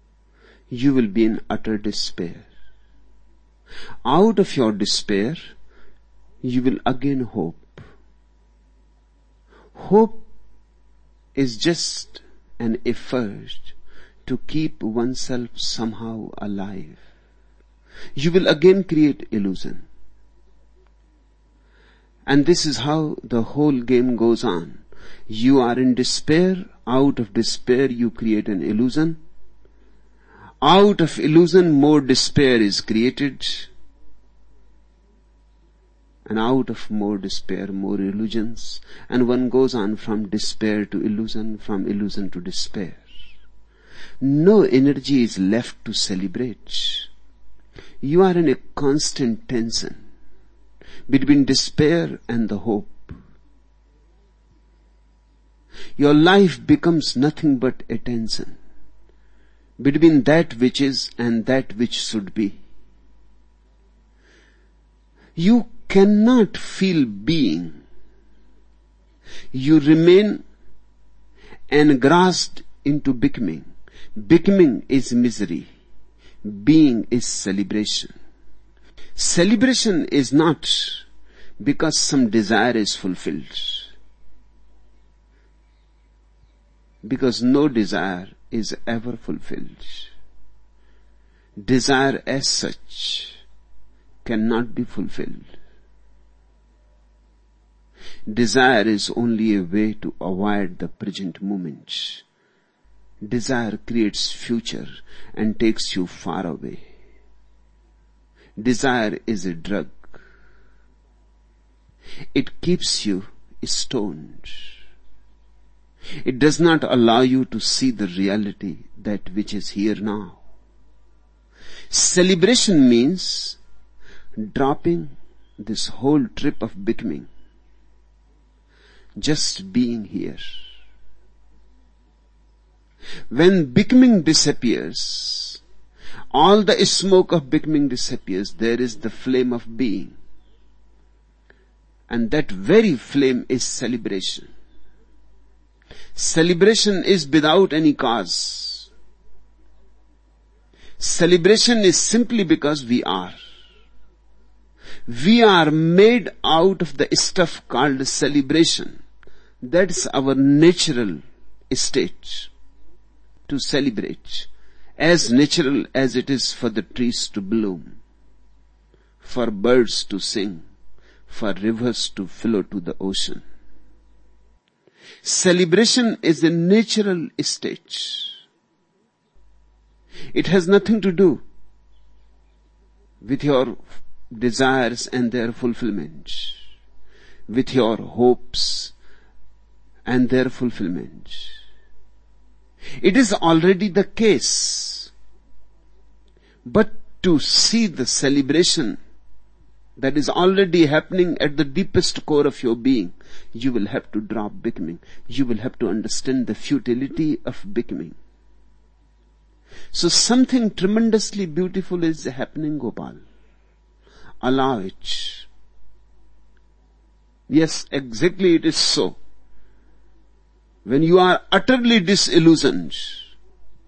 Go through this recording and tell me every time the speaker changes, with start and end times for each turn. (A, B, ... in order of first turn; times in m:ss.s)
0:00.7-0:02.5 A
0:04.0-0:05.5 A
0:06.4-0:07.8 A
0:09.8-0:10.2 A
0:11.3-0:13.7 A
0:14.2-0:17.0 A
0:18.2-0:19.8 A
0:22.2-0:29.2 A
0:30.6-0:33.7 A
0:36.2-0:43.0 A
0:44.2-0:47.1 A
0:48.0-0:50.0 A
0:51.1-0:53.2 A
0:56.0-0:58.6 A
0:59.8-1:02.6 A
1:05.4-1:07.8 A
1:09.5-1:10.4 A
1:11.7-1:15.7 A
1:16.4-1:18.1 A
1:19.2-1:21.0 A
1:21.6-1:23.9 A
1:27.0-1:30.1 A
1:31.6-1:33.4 A
1:34.2-1:35.5 A
1:38.3-1:42.2 A
1:43.2-1:46.8 A
1:48.6-1:50.1 A
1:52.3-1:54.7 A
1:56.2-2:00.4 A
2:01.9-2:03.6 A
2:04.4-2:07.3 A
2:09.2-2:10.5 A
2:13.3-2:15.6 A
2:16.3-2:20.2 A
2:22.1-2:24.5 A
2:26.1-2:28.9 A
2:31.0-2:33.4 A
2:35.1-2:39.0 A
2:39.6-2:42.5 A
2:43.5-2:48.0 A
2:49.2-2:50.6 A
2:51.3-2:53.4 A
2:55.2-2:58.4 A
3:00.3-3:01.4 A
3:03.2-3:06.6 A
3:07.5-3:08.9 A
3:10.0-3:11.6 A
3:13.0-3:15.1 A
3:16.6-3:19.0 A
3:20.0-3:28.2 A
3:29.9-3:33.2 A
3:34.4-3:35.5 A
3:37.5-3:39.2 A
3:40.8-3:43.2 A